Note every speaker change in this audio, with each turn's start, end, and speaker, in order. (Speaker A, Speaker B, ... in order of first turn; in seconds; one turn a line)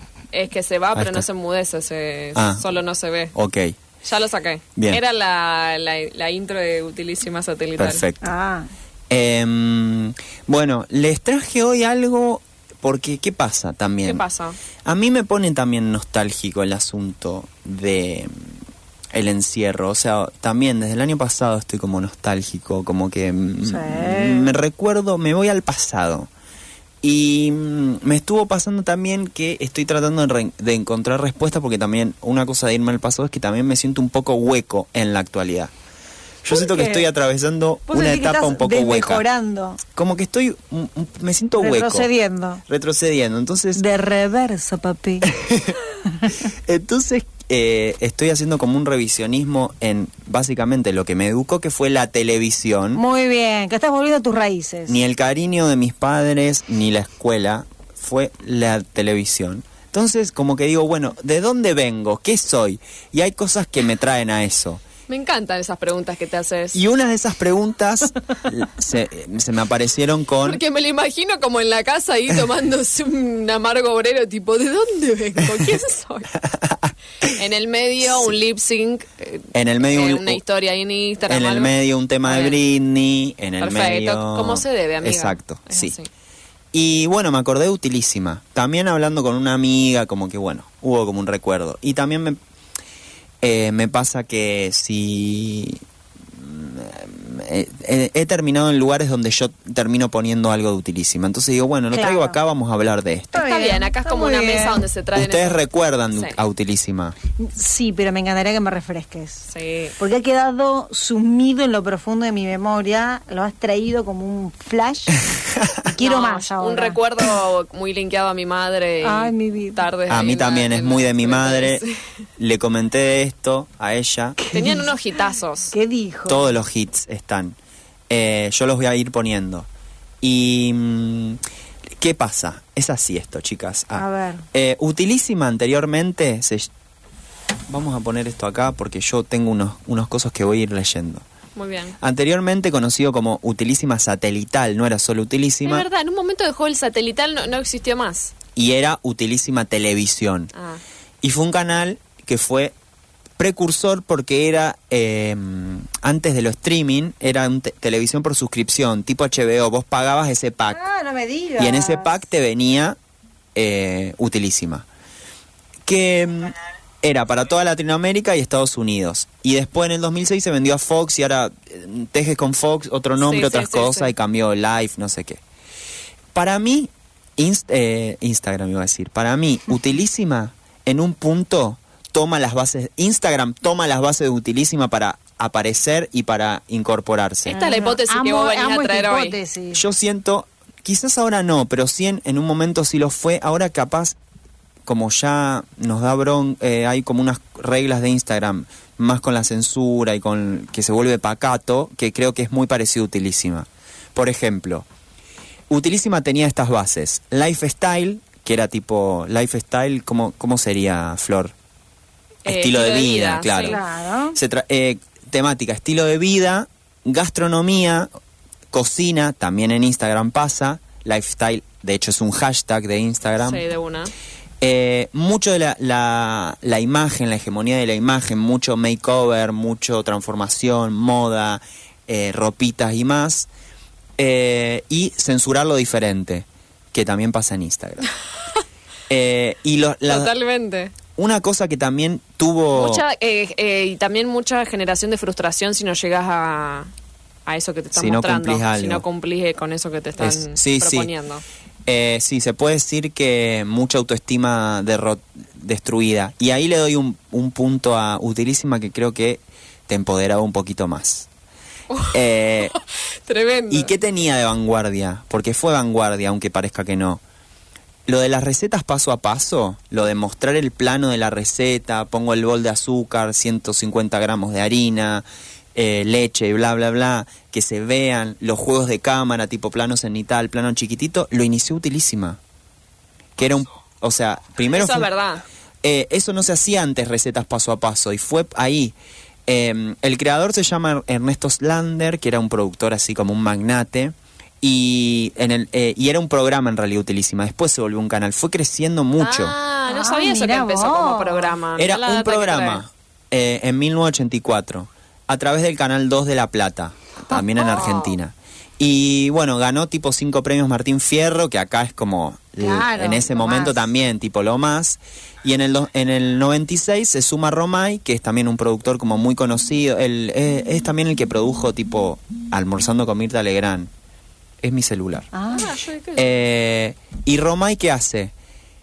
Speaker A: 0.3-3.3
Speaker B: 0.9-1.3
Speaker B: 2.3-2.6
Speaker B: 3.3-3.8
Speaker A: 4.0-8.0
Speaker B: 7.8-8.3
Speaker C: 8.2-8.7
Speaker B: 9.1-14.2
Speaker A: 14.0-14.6
Speaker B: 14.8-18.5
Speaker B: 19.1-26.3
Speaker C: 23.6-24.5
Speaker B: 27.0-35.7
Speaker B: 36.4-39.2
Speaker C: 36.5-37.0
Speaker C: 37.9-39.8
Speaker B: 39.9-42.1
Speaker C: 41.6-42.6
Speaker B: 42.7-43.8
Speaker C: 43.8-45.3
Speaker B: 45.2-45.8
Speaker B: 46.5-53.0
Speaker C: 52.9-55.0
Speaker B: 54.9-64.8
Speaker A: 65.1-66.8
Speaker B: 66.7-70.6
Speaker A: 70.4-76.3
Speaker B: 76.5-76.9
Speaker A: 77.2-81.7
Speaker B: 79.5-80.4
Speaker B: 81.3-85.9
Speaker A: 82.2-82.6
Speaker A: 83.6-86.1
Speaker B: 86.7-92.4
Speaker B: 93.4-95.8
Speaker B: 96.3-103.3
Speaker C: 101.9-102.4
Speaker C: 103.3-104.8
Speaker A: 103.3-105.6
Speaker B: 105.1-107.2
Speaker C: 107.4-109.4
Speaker A: 109.5-109.9
Speaker C: 110.0-115.2
Speaker C: 115.8-117.0
Speaker A: 116.0-122.0
Speaker C: 119.0-119.8
Speaker B: 120.1-121.8
Speaker B: 122.4-124.4
Speaker C: 124.4-124.9
Speaker A: 124.5-125.7
Speaker C: 125.7-126.5
Speaker B: 126.3-127.6
Speaker B: 128.1-129.7
Speaker B: 130.2-131.4
Speaker B: 132.0-136.7
Speaker C: 133.9-134.4
Speaker B: 137.7-141.2
Speaker A: 141.6-142.0
Speaker B: 142.0-145.9
Speaker A: 145.6-148.3
Speaker B: 148.6-150.5
Speaker A: 150.6-150.8
Speaker B: 151.2-152.7
Speaker B: 153.4-160.8
Speaker C: 160.7-162.1
Speaker B: 161.6-163.0
Speaker B: 163.6-164.8
Speaker B: 165.8-175.4
Speaker A: 173.2-174.1
Speaker B: 176.3-187.6
Speaker A: 187.5-189.4
Speaker C: 187.5-189.8
Speaker B: 189.7-194.2
Speaker B: 194.8-204.8
Speaker B: 205.7-211.5
Speaker A: 212.4-213.8
Speaker B: 212.4-213.8
Speaker C: 213.6-214.4
Speaker B: 214.3-218.1
Speaker B: 218.7-223.6
Speaker A: 223.4-224.1
Speaker B: 224.6-233.5
Speaker B: 234.2-238.1
Speaker B: 239.1-240.3
Speaker A: 240.1-240.9
Speaker B: 241.2-243.0
Speaker A: 242.7-246.9
Speaker A: 247.5-251.4
Speaker B: 247.9-249.0
Speaker B: 250.2-251.1
Speaker B: 251.8-261.3
Speaker A: 261.9-263.9
Speaker B: 262.1-262.7
Speaker B: 263.7-267.2
Speaker B: 268.1-282.4
Speaker B: 283.4-285.1
Speaker A: 284.7-285.4
Speaker B: 285.8-288.9
Speaker B: 289.5-299.6
Speaker A: 299.2-302.8
Speaker C: 299.9-301.5
Speaker B: 301.8-323.9
Speaker A: 307.6-308.1
Speaker C: 312.6-313.8
Speaker B: 324.6-325.3
Speaker C: 325.3-325.7
Speaker A: 325.5-326.4
Speaker B: 326.1-328.3